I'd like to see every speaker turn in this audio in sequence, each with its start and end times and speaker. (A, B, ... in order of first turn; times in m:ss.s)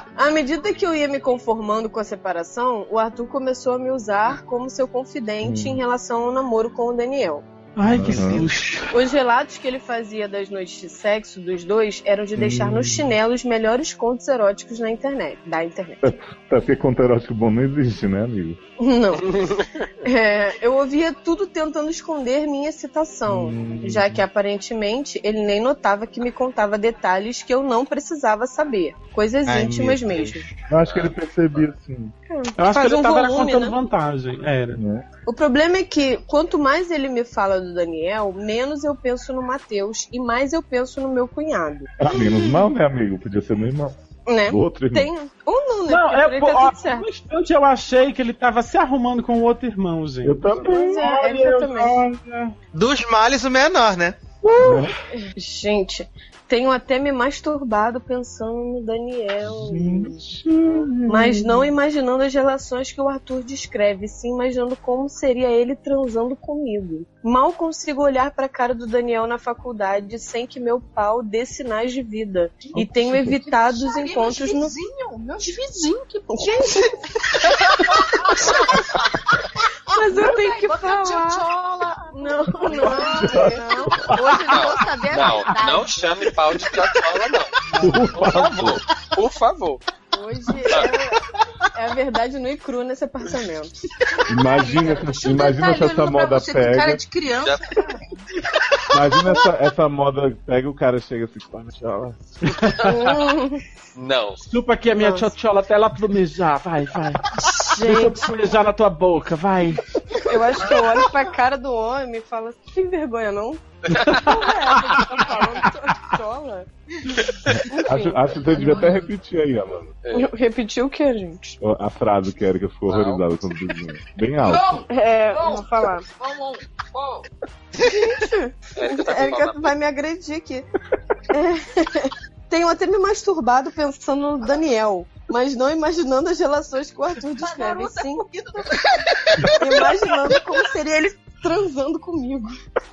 0:00.2-0:07.4 A
0:05.4-0:05.8 B
0:07.8-0:08.9 C
0:07.9-0:08.5 B
0:08.9-0:16.1 A
0:12.3-0:13.1 B
0:16.0-0:18.6 B
0:18.8-0:19.4 A
0:19.4-0:19.6 D
0:20.0-0:30.5 A
0:23.2-0:24.2 B
0:29.4-0:30.4 E
0:30.7-0:32.1 B
0:30.8-0:31.6 D
0:32.3-0:33.8 A
0:32.6-0:34.8 C
0:34.8-0:35.0 B
0:35.2-0:42.7 A
0:42.0-0:45.1 B
0:44.3-0:47.0 A
0:45.9-0:52.5 C
0:50.2-0:51.9 B
0:50.6-0:52.0 A
0:52.7-0:54.2 E
0:54.4-0:54.9 B
0:55.1-1:00.2 A
0:59.4-1:01.7 B
1:01.0-1:14.8 A
1:12.7-1:13.4 B
1:13.4-1:16.8 F
1:16.3-1:18.8 A
1:18.2-1:18.6 F
1:19.9-1:21.4 A
1:19.9-1:23.6 F
1:22.1-1:25.9 A
1:22.7-1:24.4 B
1:24.5-1:27.5 D
1:25.3-1:25.9 F
1:27.8-1:28.8 B
1:28.2-1:29.8 D
1:30.1-1:31.2 A
1:30.7-1:31.0 D
1:31.7-1:33.7 A
1:34.3-1:37.0 B
1:34.5-1:38.0 F
1:37.4-1:37.7 D
1:38.9-1:42.2 B
1:42.4-1:42.9 C
1:42.8-1:43.6 A
1:44.0-1:44.4 D
1:44.5-1:49.8 C
1:44.9-1:45.3 A
1:47.5-1:48.4 A
1:50.2-1:56.7 A
1:53.9-1:54.2 D
1:54.0-1:54.2 C
1:57.5-1:59.9 B
1:57.7-1:58.8 A
1:58.6-1:59.0 F
2:00.0-2:00.3 D
2:00.1-2:01.6 A
2:01.6-2:04.8 B
2:02.9-2:03.7 D
2:04.4-2:07.2 F
2:04.9-2:06.0 A
2:07.8-2:10.7 A
2:08.8-2:09.7 D
2:11.3-2:18.2 A
2:17.4-2:19.8 F
2:19.5-2:22.5 A